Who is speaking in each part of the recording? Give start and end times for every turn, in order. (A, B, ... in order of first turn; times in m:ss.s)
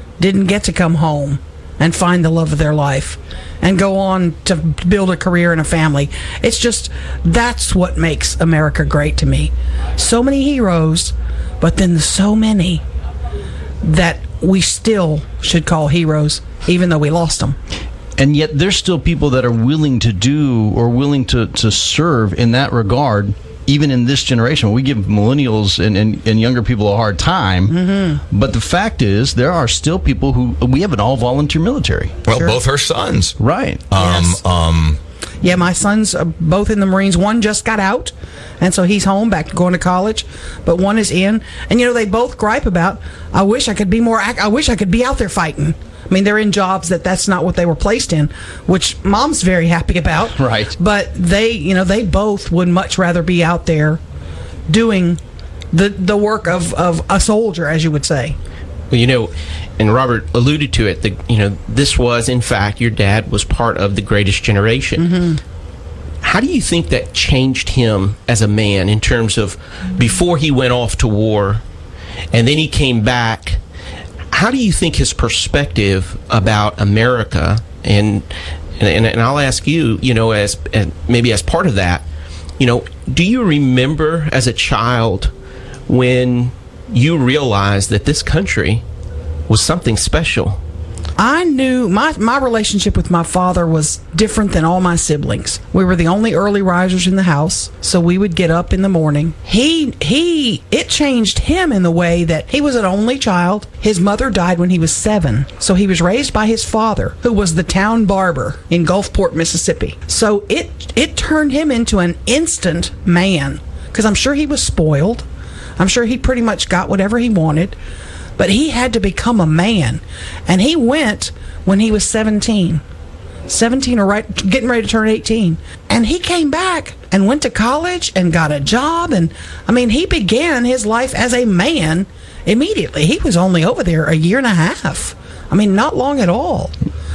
0:00.2-0:12.8 A
0:13.8-0:17.6 A
0:18.2-0:32.2 B
0:27.7-0:28.2 A
0:32.3-0:33.4 C
0:32.3-0:32.6 A
0:33.4-0:33.8 B
0:33.9-0:35.0 C
0:34.0-0:34.4 A
0:35.4-0:54.0 A
0:50.4-0:50.8 B
0:54.7-0:55.2 A
0:55.7-0:58.4 A
0:58.9-1:05.1 D
1:05.0-1:05.4 A
1:06.2-1:11.6 D
1:12.3-1:13.6 D
1:14.3-1:18.3 D
1:18.8-1:22.0 D
1:22.6-1:25.3 D
1:25.9-1:28.8 D
1:29.5-1:30.6 D
1:31.2-1:55.2 A
1:55.8-1:57.8 A
1:58.4-2:02.8 A
2:03.5-2:16.7 A